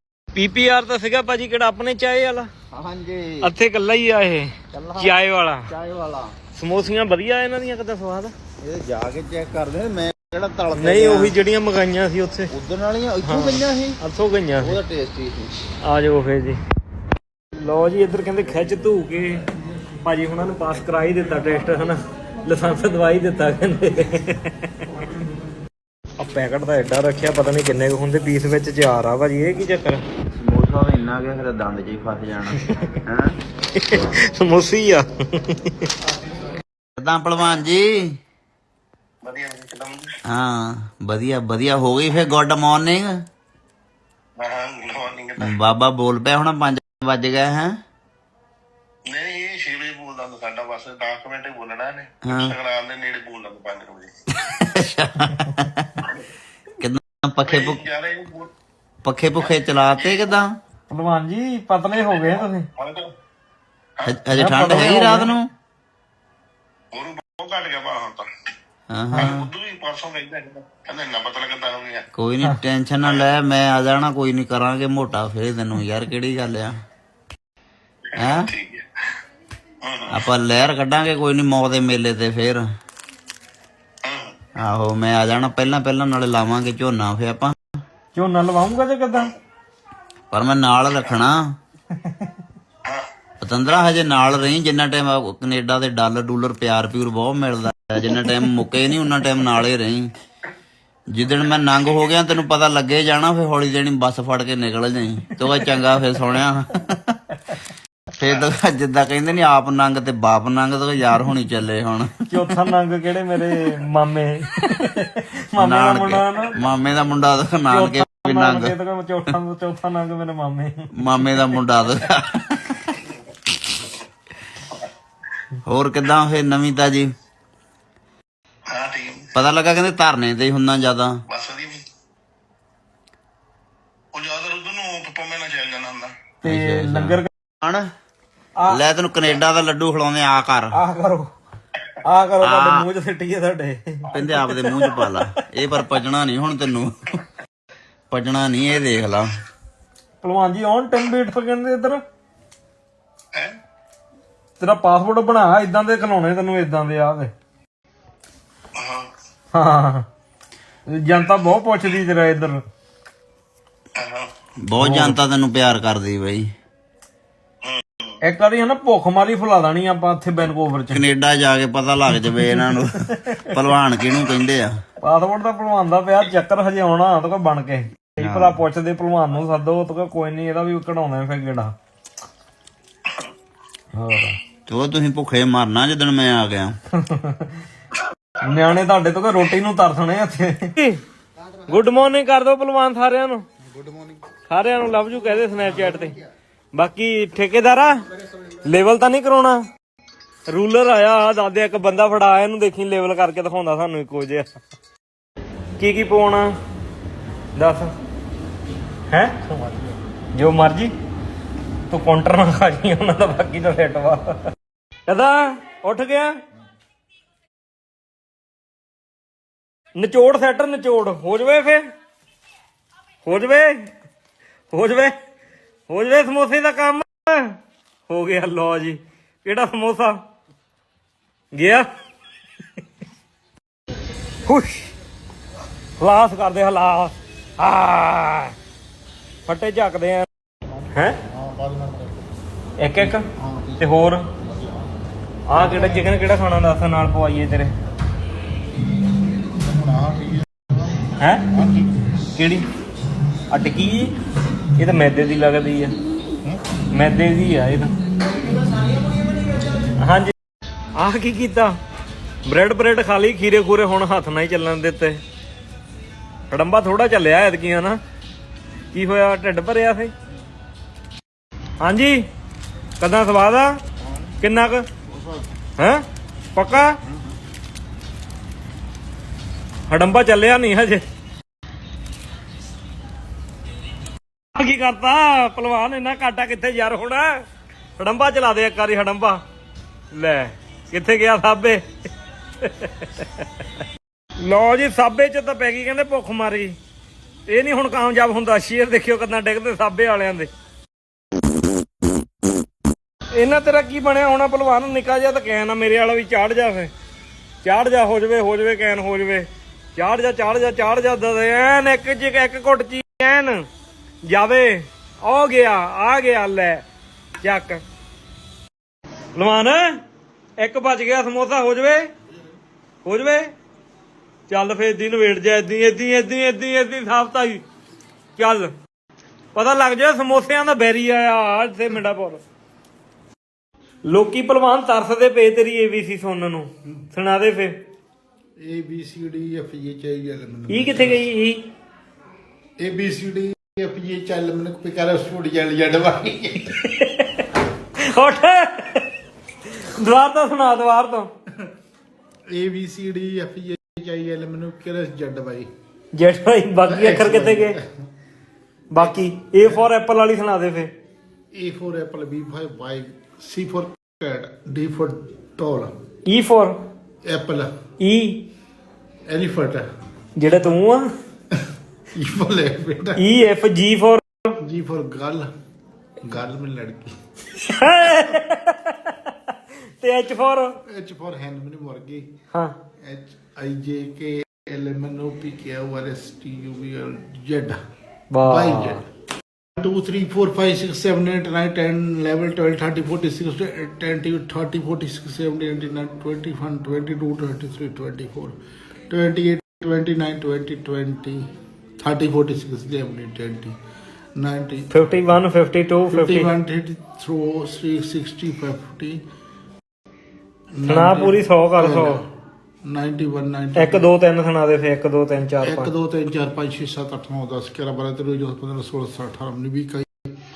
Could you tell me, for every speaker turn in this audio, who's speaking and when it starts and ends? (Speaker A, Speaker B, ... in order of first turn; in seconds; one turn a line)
Speaker A: 0.3-2.5
Speaker B: 2.7-3.5
Speaker A: 3.4-5.7
Speaker B: 4.7-6.3
Speaker A: 6.5-8.3
Speaker B: 8.6-11.3
Speaker A: 10.7-12.5
Speaker B: 12.5-14.0
Speaker A: 13.2-14.8
Speaker B: 14.6-15.5
Speaker A: 15.8-16.6
Speaker A: 17.6-19.4
Speaker A: 20.0-24.7
Speaker A: 26.2-30.0
Speaker B: 30.3-33.4
Speaker A: 32.5-32.9
Speaker A: 33.7-35.9
Speaker B: 37.0-38.1
Speaker C: 39.2-40.1
Speaker B: 40.2-43.1
Speaker C: 44.4-45.5
Speaker B: 45.4-47.7
Speaker C: 49.1-54.1
Speaker B: 52.2-52.5
Speaker B: 54.4-56.1
Speaker B: 56.8-57.8
Speaker C: 57.5-58.5
Speaker B: 59.0-60.5
Speaker C: 60.0-60.2
Speaker A: 60.9-62.7
Speaker C: 62.1-63.1
Speaker B: 64.0-65.5
Speaker A: 64.3-65.3
Speaker C: 66.9-68.2
Speaker B: 68.9-69.5
Speaker C: 69.1-72.0
Speaker B: 72.1-76.7
Speaker C: 78.1-78.8
Speaker B: 78.2-78.5
Speaker C: 79.8-80.2
Speaker B: 80.1-82.6
Speaker C: 84.0-84.3
Speaker B: 84.6-87.7
Speaker A: 88.1-89.3
Speaker B: 90.3-91.4
Speaker A: 91.9-92.3
Speaker B: 93.4-100.1
Speaker B: 101.1-107.2
Speaker B: 108.2-112.6
Speaker A: 112.3-116.5
Speaker B: 115.6-118.8
Speaker A: 117.7-121.6
Speaker B: 121.0-123.0
Speaker B: 125.6-127.1
Speaker C: 128.7-129.3
Speaker B: 129.3-131.2
Speaker C: 131.3-131.8
Speaker C: 134.1-136.1
Speaker A: 136.4-137.3
Speaker B: 136.4-137.9
Speaker B: 138.7-140.7
Speaker A: 140.7-141.3
Speaker A: 142.0-145.2
Speaker B: 142.4-142.9
Speaker B: 144.1-147.2
Speaker B: 148.1-149.3
Speaker A: 150.2-152.0
Speaker A: 154.6-157.3
Speaker C: 158.7-159.1
Speaker A: 159.5-160.1
Speaker A: 160.9-162.6
Speaker C: 164.0-164.3
Speaker B: 164.6-166.5
Speaker A: 164.8-165.2
Speaker C: 167.6-168.0
Speaker A: 168.2-171.0
Speaker B: 170.9-174.7
Speaker A: 172.1-173.6
Speaker A: 175.0-181.7
Speaker B: 178.2-178.6
Speaker A: 183.9-184.4
Speaker B: 184.7-186.8
Speaker A: 186.9-187.6
Speaker A: 188.4-191.0
Speaker A: 191.7-193.4
Speaker D: 193.7-194.2
Speaker A: 194.5-196.2
Speaker A: 196.7-198.1
Speaker A: 198.6-199.6
Speaker A: 200.5-204.6
Speaker A: 205.8-206.6
Speaker A: 207.6-207.9
Speaker A: 209.1-209.5
Speaker D: 209.6-209.9
Speaker A: 210.3-210.9
Speaker A: 211.9-214.4
Speaker A: 215.1-216.4
Speaker A: 219.9-221.8
Speaker A: 223.2-223.9
Speaker A: 224.7-225.1
Speaker A: 225.9-227.6
Speaker A: 228.1-230.2
Speaker A: 231.5-231.9
Speaker A: 234.5-234.9
Speaker A: 236.0-238.5
Speaker A: 239.4-240.3
Speaker D: 240.6-242.3
Speaker A: 240.9-241.2
Speaker A: 242.8-243.3
Speaker D: 243.0-243.8
Speaker A: 243.8-244.3
Speaker D: 244.4-244.8
Speaker A: 245.5-247.7
Speaker D: 245.5-246.1
Speaker D: 248.8-252.1
Speaker A: 251.2-251.5
Speaker A: 252.3-252.7
Speaker A: 253.5-254.1
Speaker A: 254.8-255.9
Speaker A: 256.9-257.9
Speaker A: 260.0-260.3
Speaker A: 260.9-261.8
Speaker A: 262.4-265.2
Speaker A: 266.5-268.0
Speaker A: 268.9-270.1
Speaker A: 271.8-272.2
Speaker A: 273.0-273.8
Speaker A: 274.4-274.9
Speaker D: 275.1-275.4
Speaker A: 275.8-276.0
Speaker A: 276.5-277.0
Speaker A: 279.9-281.0
Speaker A: 284.5-287.4
Speaker A: 288.0-289.4
Speaker A: 290.1-291.8
Speaker A: 292.6-293.6
Speaker A: 294.4-296.7
Speaker A: 297.5-300.5
Speaker A: 303.3-306.9
Speaker A: 307.6-313.7
Speaker A: 314.2-316.8
Speaker A: 317.4-317.8
Speaker A: 319.3-320.0
Speaker A: 320.6-322.1
Speaker A: 323.0-323.5
Speaker A: 324.5-327.6
Speaker A: 328.4-328.7
Speaker A: 329.5-332.4
Speaker A: 334.1-337.8
Speaker D: 338.6-341.2
Speaker A: 340.7-341.6
Speaker D: 342.8-346.7
Speaker A: 346.8-347.4
Speaker A: 348.0-349.1
Speaker A: 349.7-351.3
Speaker D: 352.5-355.7
Speaker A: 356.1-357.8
Speaker D: 356.8-357.8
Speaker A: 358.9-360.9
Speaker D: 359.0-359.9
Speaker D: 361.5-365.9
Speaker A: 366.3-366.8
Speaker D: 367.2-367.7
Speaker A: 368.0-368.4
Speaker D: 369.3-369.9
Speaker A: 370.4-371.1
Speaker D: 371.5-373.2
Speaker A: 373.2-374.5
Speaker D: 374.6-375.5
Speaker D: 376.2-377.1
Speaker A: 377.5-380.8
Speaker D: 380.9-382.3
Speaker D: 383.0-387.8
Speaker A: 388.3-389.0
Speaker D: 388.4-389.0
Speaker D: 389.8-398.5
Speaker D: 399.1-401.4
Speaker D: 402.0-403.7
Speaker D: 404.4-405.2
Speaker A: 404.9-406.5
Speaker D: 406.1-409.2
Speaker D: 410.8-412.3
Speaker A: 410.9-412.2
Speaker D: 412.9-414.1
Speaker A: 413.8-415.9
Speaker D: 415.6-420.3